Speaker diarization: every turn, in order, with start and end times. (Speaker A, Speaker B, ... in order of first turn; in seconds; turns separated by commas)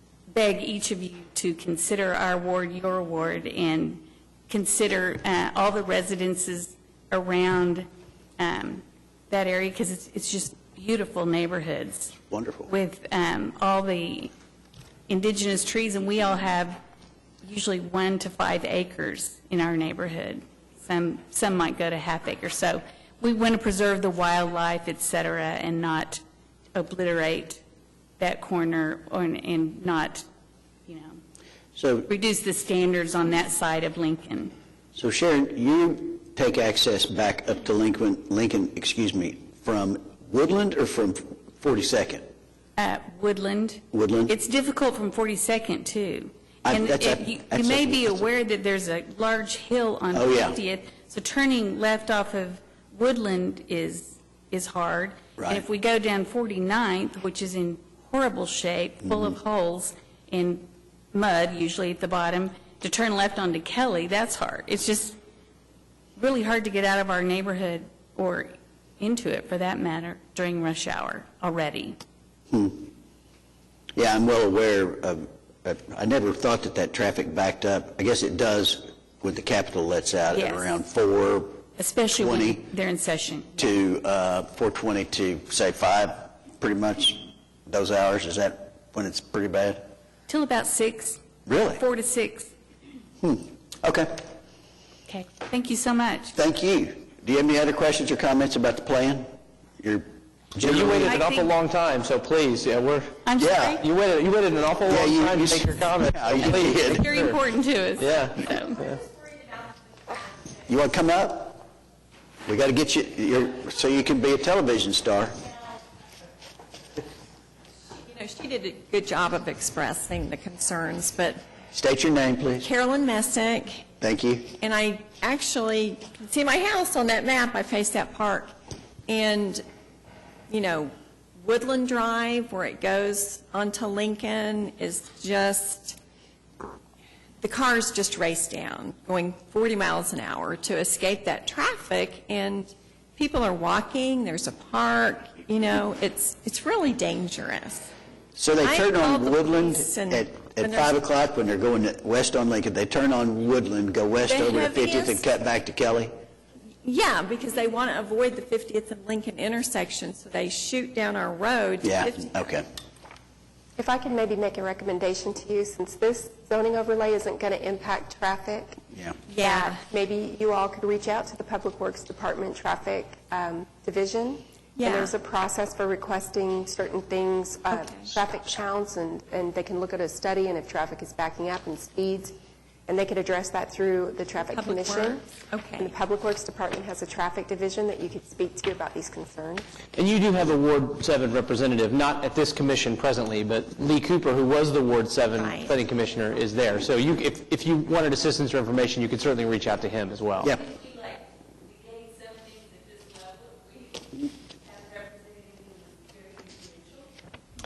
Speaker A: 0.3-7.9, Speaker A: 8.4-12.1, Speaker B: 12.3-12.7, Speaker A: 12.7-14.3, Speaker A: 15.1-16.8, Speaker A: 17.4-26.2, Speaker A: 26.7-27.6, Speaker A: 28.2-30.2, Speaker A: 30.9-31.2, Speaker B: 31.8-32.1, Speaker A: 32.1-34.5, Speaker B: 34.9-42.2, Speaker A: 42.8-65.2, Speaker B: 43.9-44.3, Speaker B: 46.6-48.2, Speaker B: 50.1-50.6, Speaker B: 55.4-55.6, Speaker A: 66.2-72.0, Speaker B: 72.5-72.9, Speaker B: 74.0-81.6, Speaker A: 80.3-80.7, Speaker A: 81.8-83.7, Speaker B: 82.2-82.7, Speaker B: 83.6-89.8, Speaker A: 90.3-91.2, Speaker B: 91.5-91.8, Speaker A: 91.8-92.5, Speaker B: 93.2-94.2, Speaker A: 95.1-96.3, Speaker B: 96.3-99.3, Speaker B: 99.8-101.2, Speaker C: 100.6-103.2, Speaker A: 101.0-101.5, Speaker A: 103.2-103.8, Speaker B: 103.4-103.8, Speaker C: 103.8-107.3, Speaker B: 104.8-107.1, Speaker A: 106.9-108.8, Speaker C: 108.0-108.9, Speaker D: 108.6-110.5, Speaker B: 110.7-111.6, Speaker B: 112.5-115.4, Speaker D: 118.0-121.4, Speaker B: 121.7-122.7, Speaker D: 122.6-123.8, Speaker B: 124.0-124.5, Speaker D: 124.6-128.5, Speaker D: 129.1-129.6, Speaker D: 130.5-136.0, Speaker D: 137.4-147.9, Speaker B: 148.3-156.1, Speaker D: 148.6-151.0, Speaker D: 154.2-155.2, Speaker D: 156.8-162.4, Speaker B: 161.8-162.7, Speaker E: 163.8-168.8, Speaker D: 169.3-169.8, Speaker E: 169.4-182.3, Speaker D: 174.8-175.1, Speaker D: 177.7-178.1, Speaker E: 182.9-189.7, Speaker D: 184.5-185.9, Speaker C: 189.9-200.5, Speaker D: 195.3-195.7, Speaker A: 202.3-202.8, Speaker A: 204.8-205.7